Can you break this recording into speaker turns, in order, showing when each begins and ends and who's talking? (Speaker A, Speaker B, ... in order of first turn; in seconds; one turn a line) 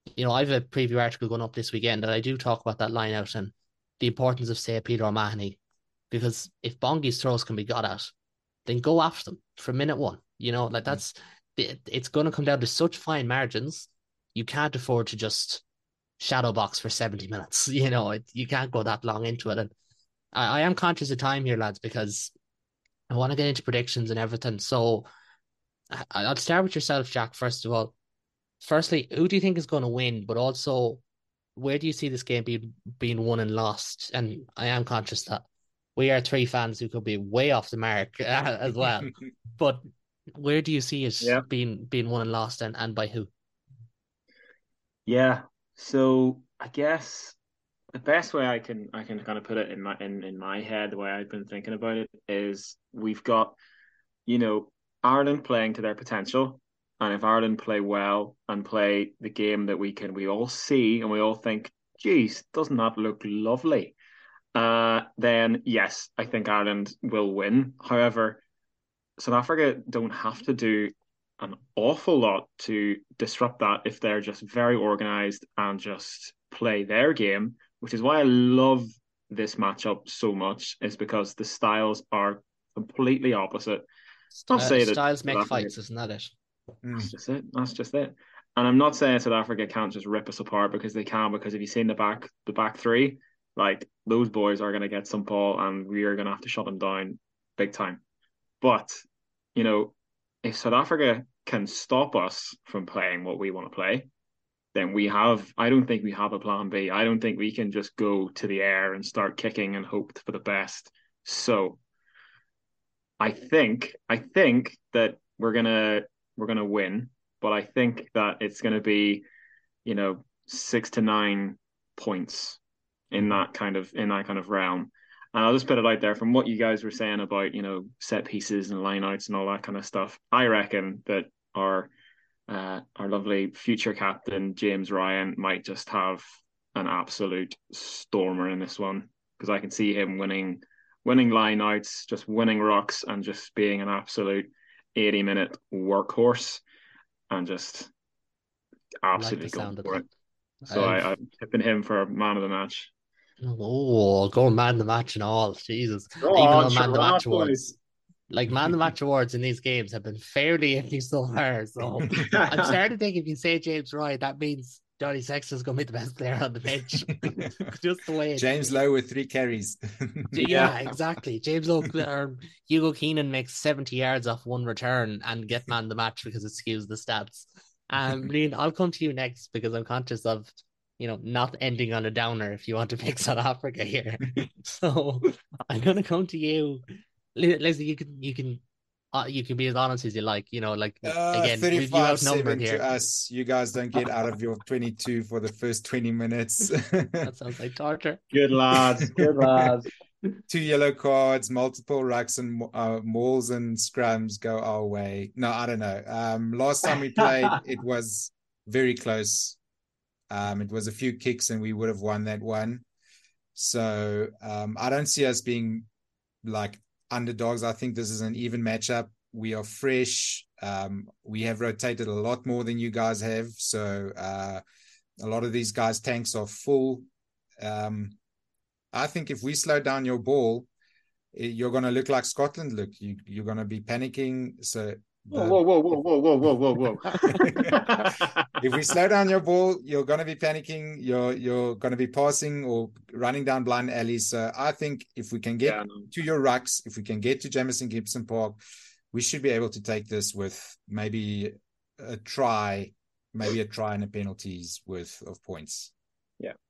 Speaker A: 0.2-5.6
Speaker A: 6.1-8.1
Speaker A: 8.7-15.6
Speaker A: 16.2-19.7
Speaker A: 20.3-22.3
Speaker A: 23.1-25.1
Speaker A: 25.9-27.9
Speaker A: 28.6-31.0
Speaker A: 31.6-35.4
Speaker A: 36.0-43.3
Speaker B: 45.1-47.4
Speaker B: 47.9-53.6
Speaker B: 54.3-64.0
Speaker B: 64.5-68.4
Speaker B: 69.2-83.9
Speaker B: 84.4-85.7
Speaker A: 84.5-86.3
Speaker C: 86.8-87.1
Speaker B: 87.0-98.0
Speaker B: 98.6-99.0
Speaker B: 99.5-104.1
Speaker B: 104.7-111.8
Speaker B: 113.2-119.2
Speaker B: 119.8-122.6
Speaker B: 123.1-131.9
Speaker B: 132.5-146.6
Speaker B: 147.3-147.9
Speaker B: 149.0-150.0
Speaker A: 149.2-150.1
Speaker A: 150.7-151.1
Speaker B: 150.7-152.9
Speaker A: 153.4-157.6
Speaker B: 156.2-157.8
Speaker A: 158.3-168.8
Speaker C: 162.0-162.4
Speaker B: 162.1-162.7
Speaker C: 167.2-167.6
Speaker C: 168.4-170.3
Speaker A: 170.3-186.8
Speaker B: 170.4-170.7
Speaker A: 187.3-188.6
Speaker A: 189.1-192.8
Speaker C: 191.0-197.3
Speaker A: 197.2-198.3
Speaker B: 198.3-199.9
Speaker C: 199.0-199.6
Speaker C: 200.5-209.6
Speaker C: 210.3-212.8
Speaker C: 213.6-215.9
Speaker C: 216.4-224.6
Speaker C: 225.2-227.1
Speaker C: 227.6-228.2
Speaker C: 228.9-230.7
Speaker C: 231.3-235.6
Speaker B: 235.3-238.5
Speaker C: 237.2-248.6
Speaker B: 245.6-246.1
Speaker C: 249.1-255.9